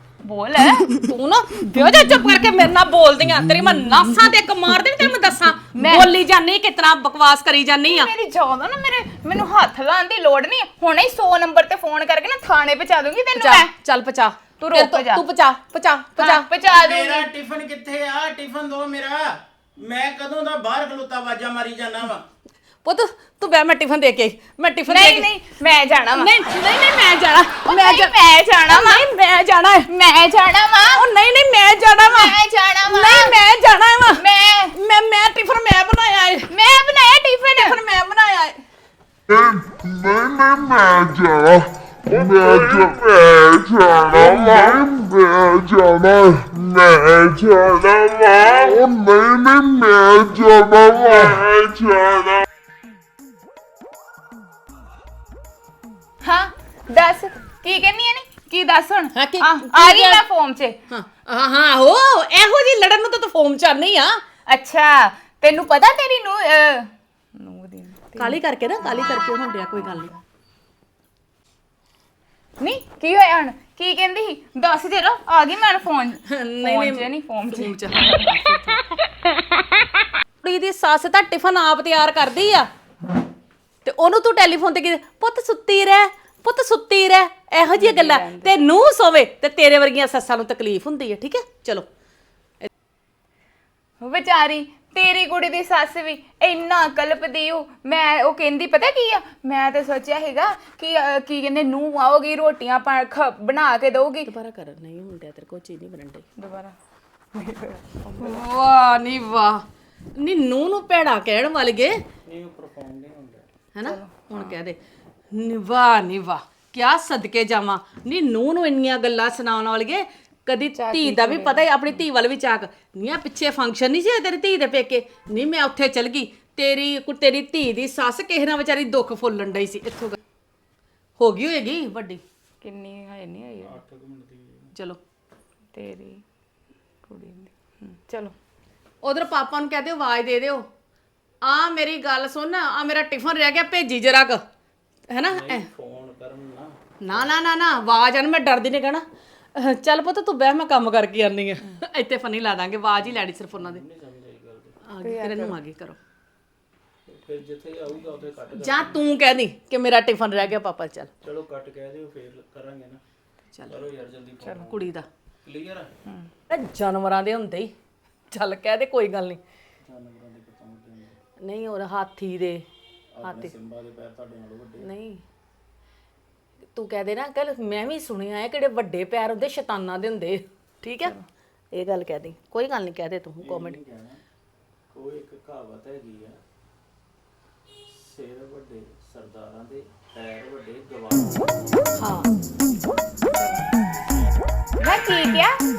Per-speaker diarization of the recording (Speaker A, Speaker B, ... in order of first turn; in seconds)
Speaker A: 0.2-0.9, 5.7-6.1, 7.9-13.7, 14.6-15.2, 16.2-17.3, 24.9-26.3, 27.6-29.1, 29.9-31.1, 32.0-33.4, 34.2-34.7, 36.5-37.8, 56.2-60.8, 64.5-69.1, 72.6-78.4, 87.7-88.6, 94.0-104.3, 106.4-106.8, 107.3-108.4, 113.8-114.5, 120.7-122.0, 132.6-133.8, 135.7-136.2, 137.0-138.3, 155.0-155.6, 181.0-181.3, 193.3-193.6, 194.8-195.6
Speaker B: 1.0-8.1, 13.4-16.5, 22.9-25.3, 26.2-28.1, 28.7-29.9, 31.0-32.3, 32.9-34.2, 34.7-36.5, 37.6-38.6, 59.1-60.2, 60.9-64.2, 68.2-70.1, 76.3-78.8, 80.4-82.7, 83.8-91.9, 104.3-106.2, 108.2-109.6, 110.2-112.0, 113.8-114.8, 115.3-130.2, 131.2-132.2, 139.0-140.7, 141.4-144.4, 145.1-145.7, 147.0-149.0, 149.6-153.8, 154.9-156.0, 158.6-161.1, 164.6-165.1, 166.5-167.7, 168.3-169.4, 171.4-172.6, 173.2-173.5, 174.8-175.2, 176.8-181.2, 181.7-183.8, 192.0-192.3
Speaker C: 16.7-22.2, 112.3-113.5, 133.6-134.7, 145.2-147.4, 153.0-154.8, 157.1-159.0, 161.2-163.0, 163.7-166.0, 169.8-171.2, 173.1-174.9, 183.4-184.2, 184.9-186.4, 187.9-192.1
Speaker D: 39.3-52.5